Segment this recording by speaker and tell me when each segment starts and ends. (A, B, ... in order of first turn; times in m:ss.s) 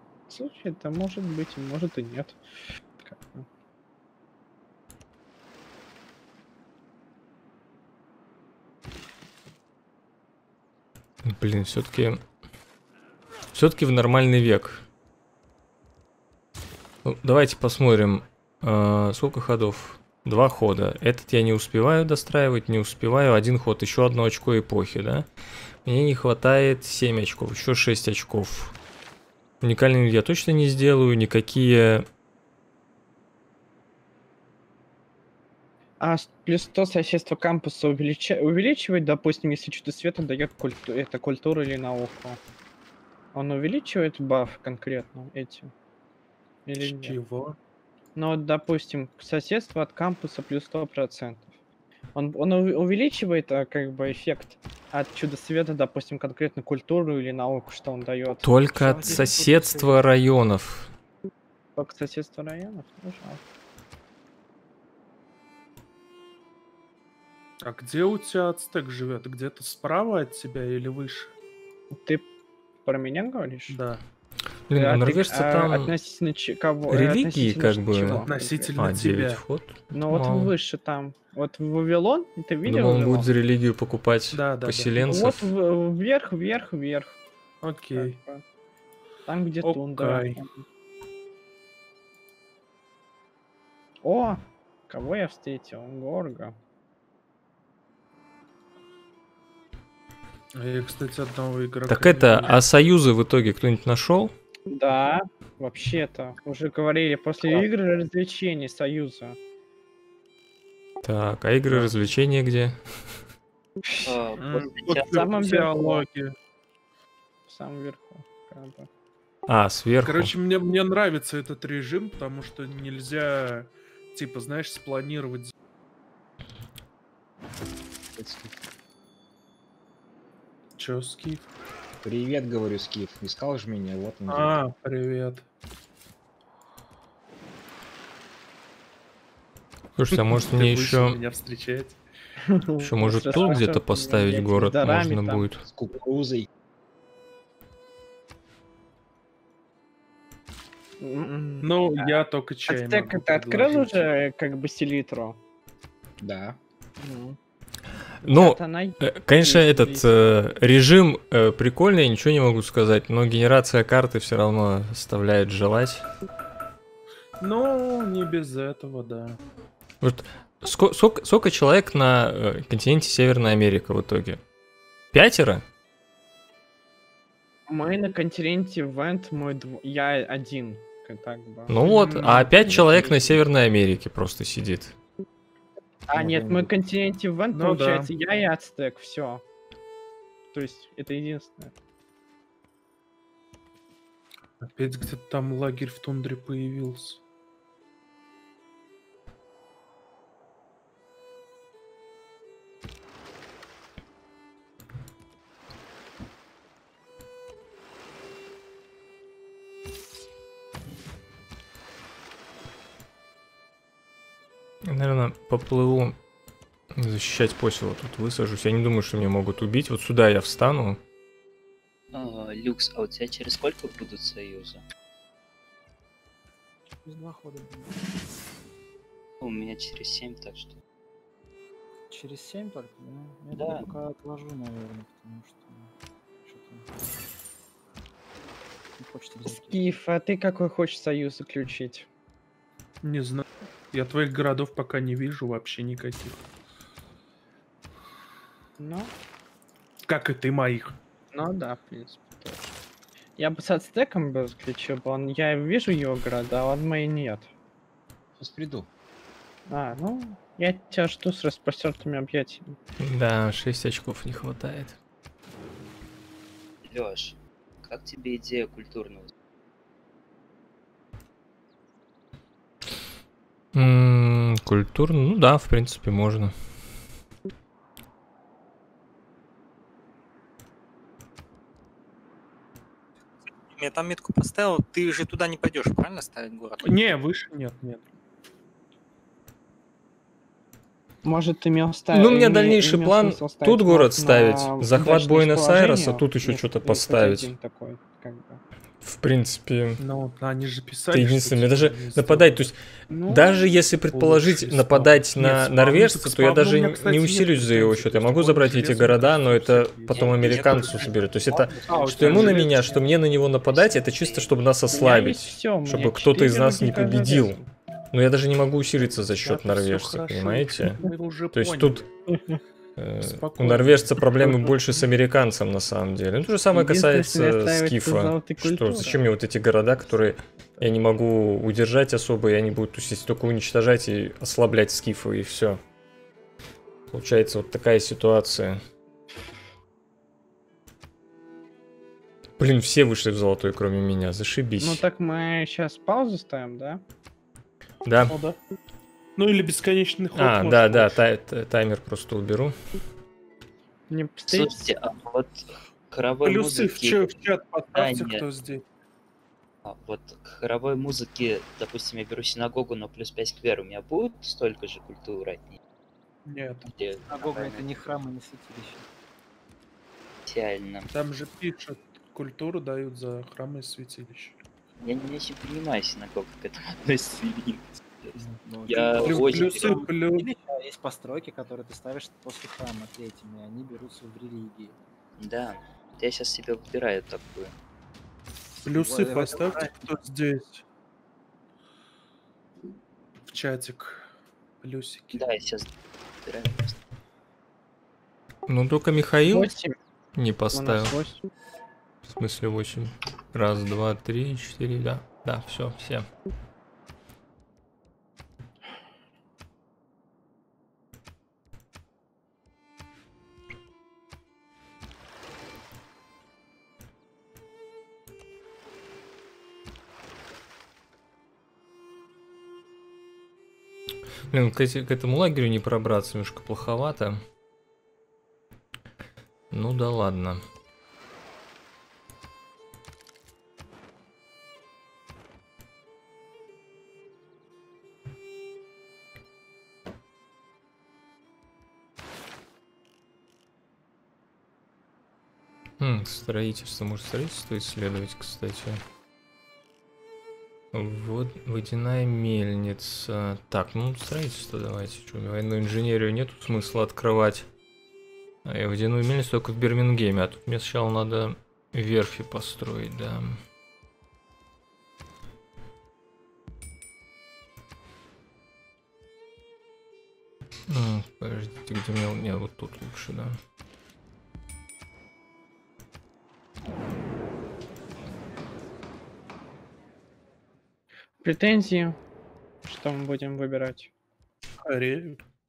0:00.3-0:02.4 A
0:03.0-0:03.4 A
0:11.2-0:12.2 B
0:13.5-0:14.8 B
0:17.0-0:25.3 B
0:25.8-0:28.7 B
0:29.6-0:32.0 B
0:36.0-0:42.4 A
0:43.3-0:45.7 A
0:46.6-0:47.2 A
0:46.8-0:47.6 C
0:48.2-0:51.5 A
0:52.1-0:59.3 A
0:58.4-1:00.9 B
0:58.7-1:00.1 D
1:01.8-1:03.4 A
1:07.6-1:11.3 C
1:11.9-1:12.3 A
1:12.8-1:13.8 A
1:13.7-1:14.0 C
1:14.7-1:15.9 B
1:14.7-1:18.7 A
1:16.9-1:20.5 B
1:18.0-1:19.4 C
1:19.9-1:23.3 A
1:22.6-1:25.5 B
1:24.3-1:25.1 C
1:25.0-1:27.2 A
1:27.6-1:28.2 C
1:27.9-1:28.4 A
1:29.2-1:30.6 A
1:29.6-1:30.5 C
1:34.0-1:36.6 A
1:40.5-1:42.6 C
1:41.9-1:44.3 B
1:44.7-1:49.4 A
1:51.0-1:52.8 B
1:51.7-1:51.9 C
1:54.0-1:56.3 C
1:54.0-1:55.2 E
1:54.9-1:56.1 A
1:57.5-1:58.9 A
1:59.5-2:00.3 B
2:00.0-2:05.5 C
2:08.2-2:08.5 F
2:10.8-2:11.5 C
2:12.0-2:14.6 F
2:14.3-2:15.4 C
2:20.0-2:21.2 B
2:20.1-2:22.0 C
2:22.5-2:25.5 A
2:22.8-2:25.6 B
2:25.6-2:26.5 F
2:31.0-2:35.4 A
2:31.6-2:34.1 C
2:36.2-2:36.6 F
2:37.0-2:37.4 A
2:38.2-2:40.4 A
2:38.2-2:46.0 B
2:47.4-2:49.4 C
2:50.0-2:54.4 B
2:55.1-2:55.6 B
2:57.7-3:03.4 A
3:01.7-3:05.0 B
3:01.8-3:02.6 C
3:06.1-3:09.4 A
3:06.1-3:06.7 F
3:07.5-3:08.1 C
3:10.5-3:11.7 A
3:14.6-3:17.2 C
3:34.8-3:36.2 B
3:36.9-3:41.0 B
3:42.1-3:44.8 E
3:47.0-3:48.0 D
3:49.4-3:50.8 E
3:52.1-3:55.9 D
3:53.5-3:53.9 E
3:56.4-3:56.9 D
3:59.0-3:59.8 D
3:59.4-4:02.1 A
4:03.0-4:06.4 C
4:08.8-4:09.1 A
4:10.0-4:11.0 C
4:11.3-4:12.7 A
4:13.4-4:17.5 A
4:18.4-4:18.9 F
4:19.7-4:22.8 A
4:23.0-4:25.0 B
4:26.8-4:29.3 E
4:33.7-4:36.5 B
4:43.7-4:47.0 G
4:46.8-4:48.1 C
4:51.2-4:58.6 A
4:52.1-4:57.5 B
4:59.0-5:00.0 B
5:00.0-5:02.7 C
5:01.1-5:17.6 B
5:03.1-5:03.8 A
5:04.0-5:13.0 C
5:10.1-5:12.7 E
5:13.7-5:14.5 E
5:14.9-5:17.7 A
5:18.1-5:22.0 B
5:19.2-5:22.1 C
5:23.0-5:35.8 B
5:23.2-5:25.1 C
5:26.7-5:29.2 A
5:30.0-5:30.9 A
5:37.1-5:38.8 B
5:42.6-5:45.0 B
5:44.8-5:47.0 A
5:48.0-5:48.4 B
5:48.3-5:48.6 C
5:49.4-5:51.2 C
5:50.3-5:52.7 B
5:54.1-5:54.9 A
5:54.5-5:58.4 E
5:56.4-5:58.8 C
5:59.8-6:05.8 E
6:06.4-6:06.9 C
6:06.9-6:08.2 E
6:07.3-6:09.0 D
6:10.5-6:11.1 E
6:11.1-6:14.6 C
6:15.0-6:20.1 E
6:18.4-6:25.0 D
6:19.2-6:20.5 C
6:25.4-6:27.7 E
6:28.8-6:29.9 D
6:28.8-6:30.8 C
6:33.5-6:34.3 C
6:34.8-6:35.5 C
6:35.3-6:35.9 E
6:36.4-6:37.0 E
6:38.7-6:39.7 B
6:39.4-6:39.9 A
6:40.3-6:41.2 B
6:40.7-6:41.4 A
6:42.2-6:46.3 B
7:04.5-7:07.4 B
7:09.7-7:10.6 B
7:26.0-7:29.0 B
7:30.9-7:37.7 B
7:38.6-7:43.6 B
7:50.9-7:53.6 B
8:01.4-8:02.2 A
8:02.8-8:04.1 A
8:04.8-8:05.4 C